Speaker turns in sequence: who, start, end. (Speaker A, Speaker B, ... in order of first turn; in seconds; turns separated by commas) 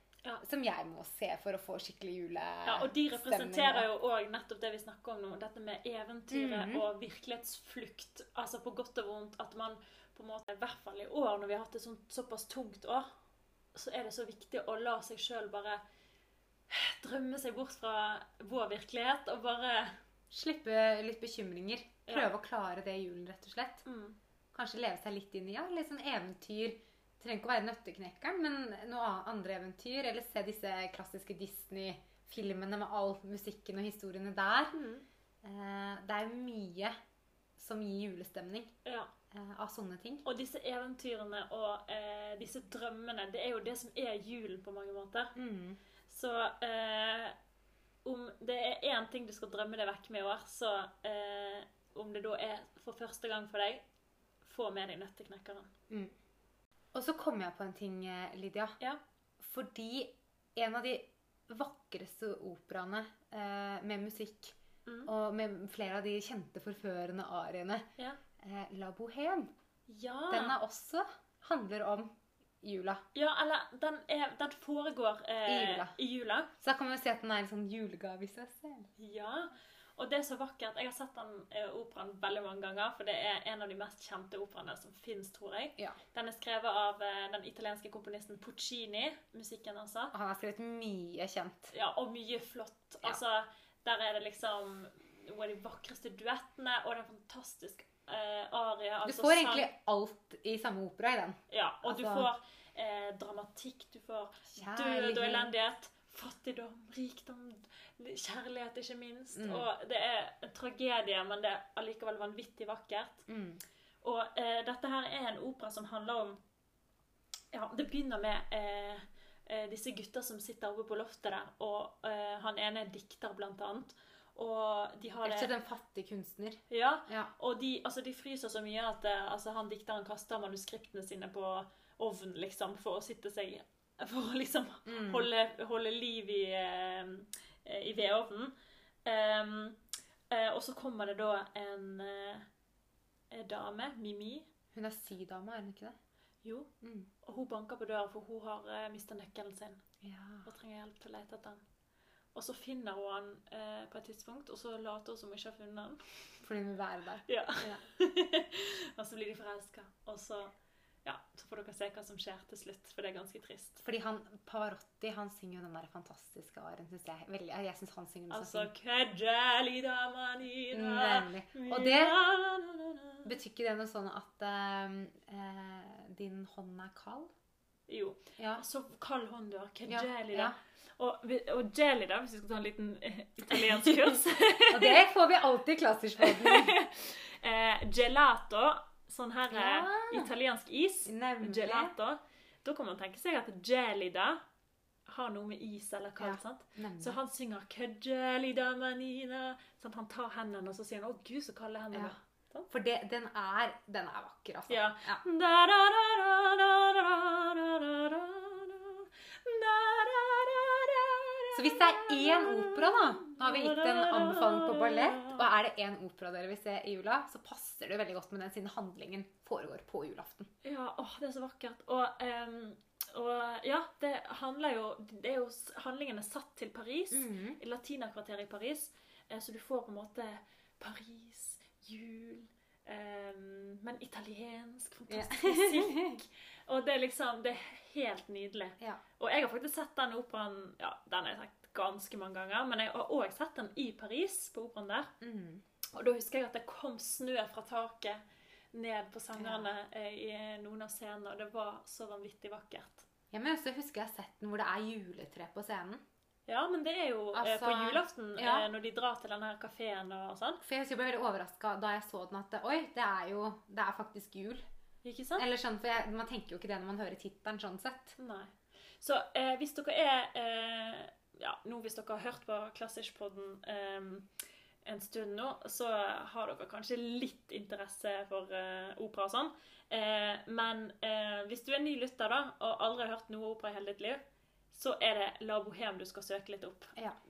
Speaker A: 0.4-3.9, Speaker B: 2.6-13.1, Speaker A: 6.3-6.8, Speaker B: 13.7-15.8, Speaker B: 16.7-20.0, Speaker A: 20.3-23.8, Speaker B: 22.1-22.3, Speaker B: 23.8-24.2, Speaker A: 24.5-34.7, Speaker B: 34.7-35.0, Speaker A: 35.4-36.9, Speaker A: 37.6-38.7, Speaker A: 39.3-40.2, Speaker B: 40.2-45.3, Speaker A: 45.3-45.8, Speaker B: 46.1-47.3, Speaker B: 48.0-53.8, Speaker B: 54.4-55.7, Speaker A: 55.9-56.1, Speaker A: 56.9-58.8, Speaker A: 59.4-64.5, Speaker B: 64.8-65.1, Speaker A: 65.0-67.9, Speaker A: 68.4-69.5, Speaker B: 69.9-70.6, Speaker A: 70.3-73.0, Speaker B: 73.1-76.5, Speaker A: 75.5-75.9, Speaker A: 76.6-78.9, Speaker B: 79.0-90.1, Speaker A: 90.1-91.7, Speaker B: 91.7-99.7, Speaker A: 99.0-102.3, Speaker B: 101.5-113.2, Speaker A: 104.5-105.5, Speaker A: 109.3-109.6, Speaker A: 113.3-113.6, Speaker B: 114.0-116.4, Speaker B: 117.5-125.5, Speaker A: 125.2-127.3, Speaker B: 126.7-138.5, Speaker A: 134.8-135.3, Speaker B: 139.1-139.8, Speaker B: 140.3-142.5, Speaker B: 143.3-144.5, Speaker A: 144.7-145.9, Speaker B: 146.4-146.7, Speaker A: 146.8-147.1, Speaker B: 147.2-149.8, Speaker A: 150.0-150.4, Speaker B: 150.4-151.6, Speaker B: 152.3-156.4, Speaker A: 156.4-157.8, Speaker B: 157.3-160.5, Speaker B: 161.0-163.8, Speaker A: 163.8-168.7, Speaker B: 168.3-173.3, Speaker A: 170.7-172.2, Speaker A: 173.2-177.3, Speaker B: 177.9-185.0, Speaker A: 178.4-178.6, Speaker A: 179.9-180.5, Speaker A: 183.5-184.1, Speaker A: 184.7-186.7, Speaker B: 186.2-194.4, Speaker A: 189.5-190.3, Speaker A: 191.1-191.9, Speaker B: 195.1-202.7, Speaker A: 196.2-197.2, Speaker A: 202.7-205.2, Speaker B: 204.7-215.4, Speaker A: 211.5-220.5, Speaker B: 220.6-245.1, Speaker A: 227.1-227.6, Speaker A: 235.1-236.2, Speaker A: 245.2-245.6, Speaker B: 245.9-248.2, Speaker B: 248.7-253.1, Speaker A: 249.4-249.7, Speaker A: 253.3-256.0, Speaker B: 256.5-260.6, Speaker A: 257.3-258.7, Speaker A: 260.6-264.6, Speaker B: 265.0-265.4, Speaker A: 265.4-268.2, Speaker B: 268.2-274.3, Speaker B: 274.8-284.2, Speaker B: 284.7-286.9